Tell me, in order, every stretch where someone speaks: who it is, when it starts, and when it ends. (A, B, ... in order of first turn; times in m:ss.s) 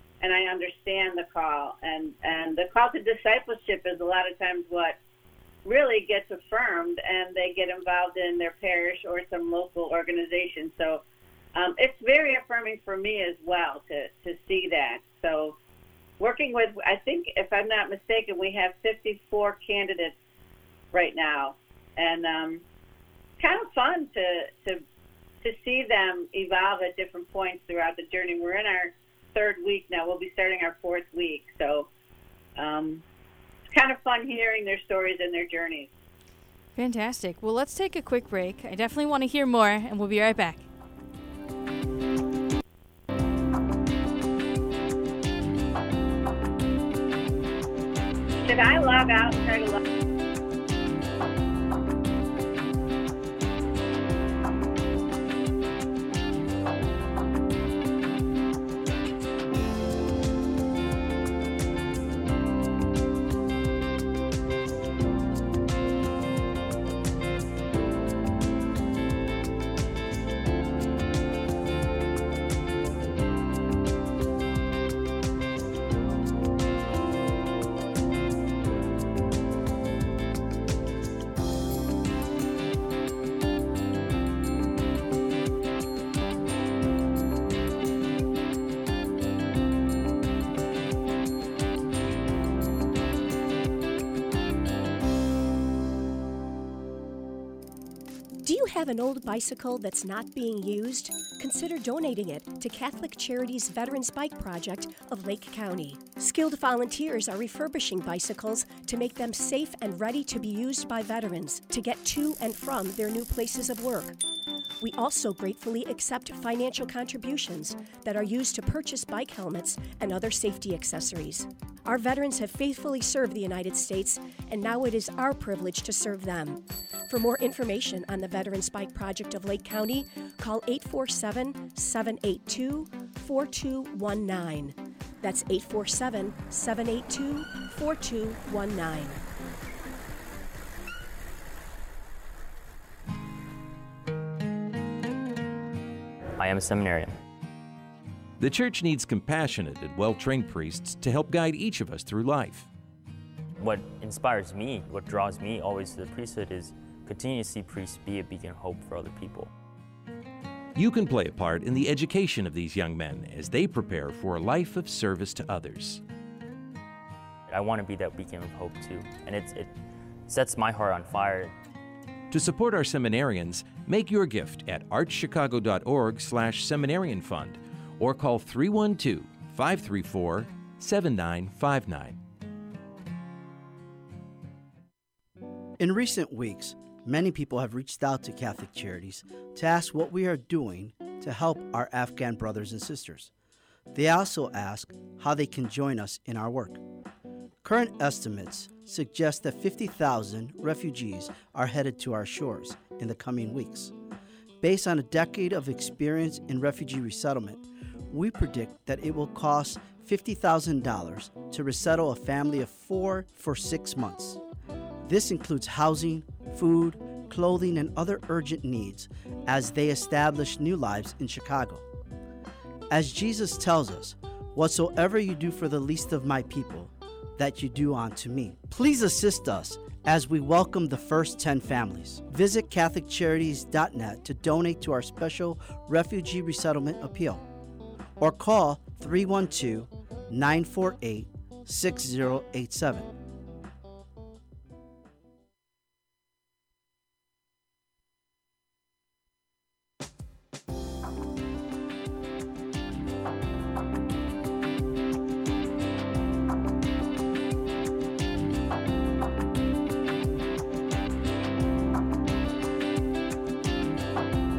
0:00.2-0:05.0 A
0:05.6-0:11.0 A
0:11.5-0:15.6 A
0:16.2-0:20.1 A
0:20.9-0:22.6 A
0:23.4-0:24.8 A
0:25.4-0:31.9 A
0:32.6-0:33.0 A
0:33.7-0:35.9 A
0:36.8-0:40.7 B
0:48.4-0:49.8 A
1:38.4-1:54.2 C
1:54.8-2:19.2 C
2:26.4-2:27.1 D
2:28.4-2:32.7 E
2:33.6-2:39.5 D
2:40.8-2:46.0 E
2:47.5-2:49.8 D
2:50.3-2:51.6 D
2:52.3-3:02.2 E
3:05.8-3:13.3 F
3:13.9-3:16.8 F
3:17.6-3:23.9 F
3:24.6-3:34.4 F
3:35.0-3:41.8 F
3:42.9-3:57.4 F
3:58.2-4:03.1 F